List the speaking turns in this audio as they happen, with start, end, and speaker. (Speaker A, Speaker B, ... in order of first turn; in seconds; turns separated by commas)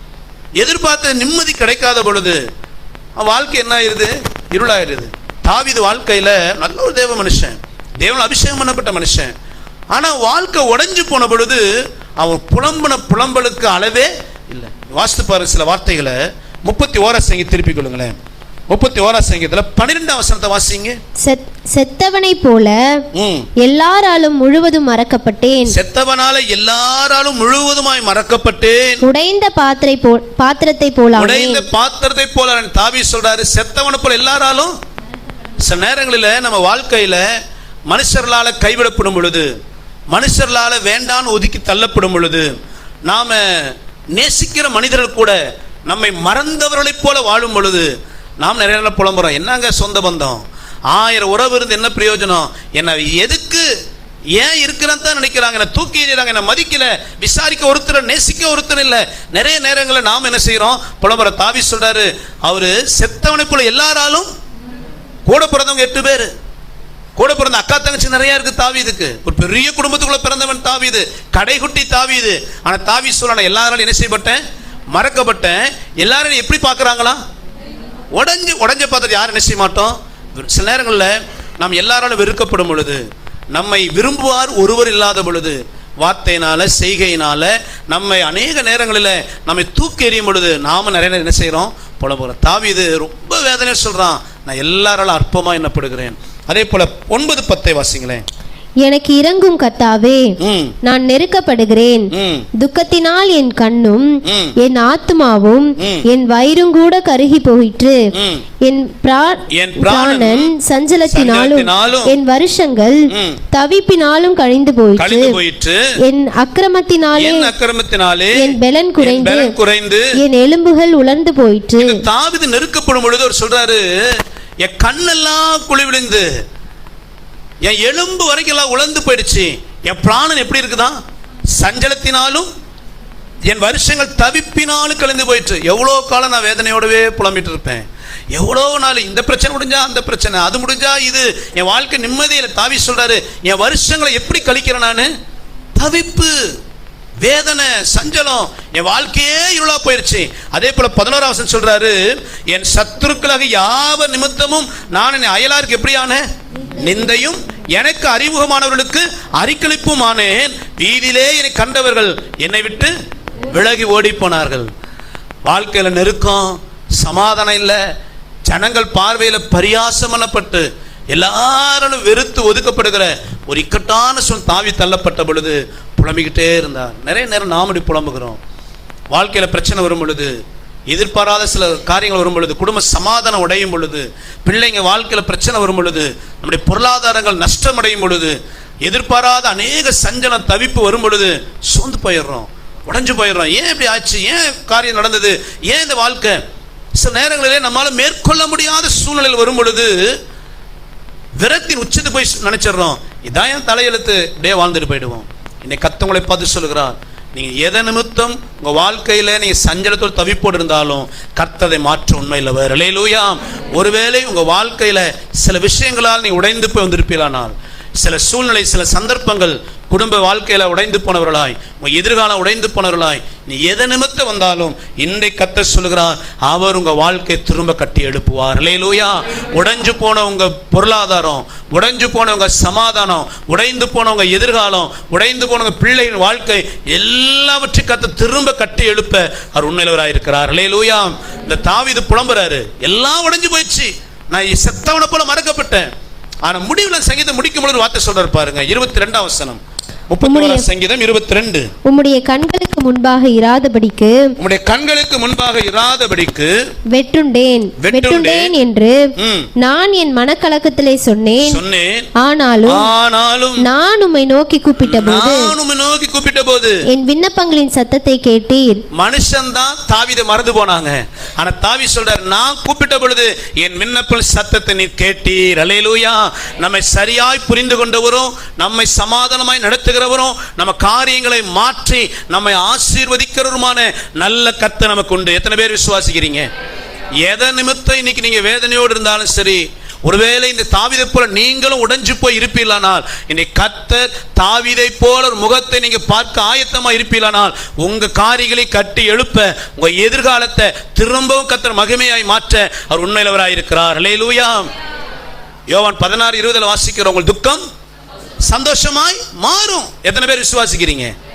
Speaker A: 0.6-2.4, Speaker A: 3.2-9.3, Speaker A: 9.9-18.1, Speaker A: 18.7-21.0, Speaker B: 21.2-22.8, Speaker A: 23.1-23.5, Speaker B: 23.6-25.8, Speaker A: 25.7-29.0, Speaker B: 29.0-31.6, Speaker A: 31.1-34.7, Speaker A: 35.6-37.2, Speaker A: 37.9-39.5, Speaker A: 40.1-42.5, Speaker A: 43.1-53.6, Speaker A: 54.3-64.3, Speaker A: 65.3-66.3, Speaker A: 67.2-77.2, Speaker A: 78.1-98.2, Speaker B: 98.8-108.1, Speaker A: 100.4-100.7, Speaker A: 102.1-102.5, Speaker A: 104.2-104.5, Speaker A: 105.8-106.0, Speaker A: 108.1-108.4, Speaker B: 108.6-115.4, Speaker A: 109.5-110.5, Speaker A: 111.1-112.1, Speaker A: 113.1-113.4, Speaker A: 115.0-115.9, Speaker B: 116.0-117.5, Speaker A: 117.1-120.1, Speaker B: 118.3-119.5, Speaker B: 120.2-122.0, Speaker A: 121.8-126.3, Speaker A: 127.6-131.0, Speaker A: 131.5-132.5, Speaker A: 133.5-145.1, Speaker A: 145.8-146.3, Speaker A: 147.2-162.9, Speaker A: 163.4-164.7, Speaker A: 165.4-167.8, Speaker A: 168.4-178.4, Speaker A: 179.1-180.3, Speaker A: 180.9-196.4, Speaker A: 196.9-200.2, Speaker A: 201.4-245.9, Speaker A: 246.4-251.7, Speaker B: 250.2-250.7, Speaker B: 251.8-254.2, Speaker A: 254.4-256.5, Speaker B: 256.9-259.0, Speaker A: 257.8-258.5, Speaker A: 259.2-259.5, Speaker B: 259.6-261.6, Speaker A: 261.4-262.1, Speaker B: 262.2-262.9, Speaker A: 262.6-263.6, Speaker B: 263.6-265.5, Speaker A: 264.8-266.8, Speaker B: 266.9-268.8, Speaker A: 268.9-286.5, Speaker A: 287.2-304.7, Speaker A: 305.7-307.6, Speaker A: 308.5-311.1